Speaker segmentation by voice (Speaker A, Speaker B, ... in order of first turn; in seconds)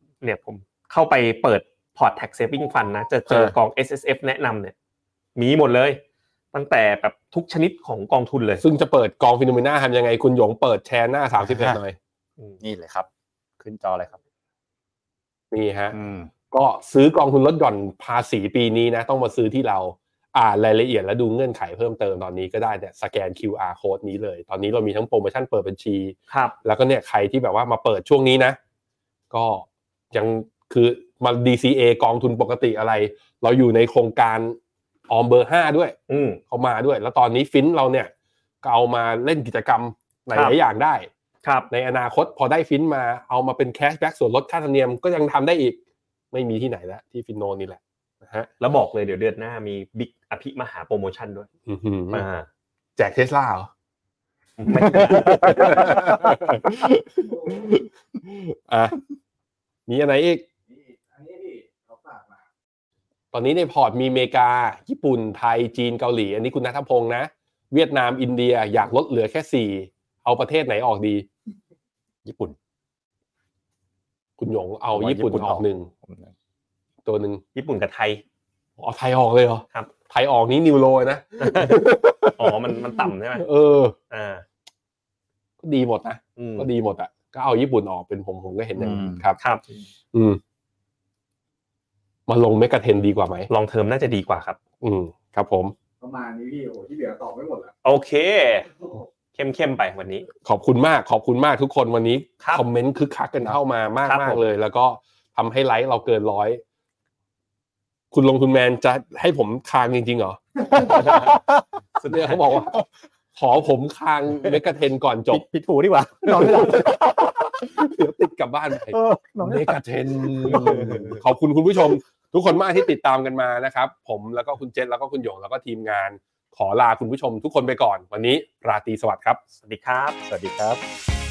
Speaker A: 0.2-4.7, 5.4-6.0, 6.5-8.6, 26.3-26.6, 36.1-36.4, 41.4-41.7, 48.6-51.5, 52.1-52.5, 54.6-56.1, 77.5-78.2, 81.4-83.5, 84.1-84.5, 86.4-86.7, 93.5-94.6, 97.8-98.7, 99.3-100.3, 104.1-104.4, 110.9-111.4, 112.0-112.5, 120.5-121.1, 129.6-130.2
Speaker B: 3.3-3.5, 8.6-12.0, 15.5-15.9, 16.5-28.6, 29.3-34.6, 35.1-36.0, 36.5-38.1, 38.6-41.1, 41.7-45.8, 46.3-48.5, 51.7-52.3, 53.0-53.7, 54.9-59.0, 59.9-60.5, 63.3-71.3, 74.4-75.9, 77.0-77.4, 78.8-84.0, 85.6-89.4, 90.1-90.4, 92.3-93.5, 94.8-95.8, 100.4-106.6, 108.1-111.4, 112.0-112.8, 113.4-115.5, 116.3-117.0, 117.6-129.4
Speaker C: 11.4-11.8, 12.6-13.1, 13.6-14.2, 15.9-16.3, 72.2-72.6, 74.9-76.3, 88.8-89.2, 111.0-111.5, 115.3-117.7, 118.9-121.2, 130.2-130.8
Speaker D: 57.2-57.7, 60.7-62.4, 96.0-97.7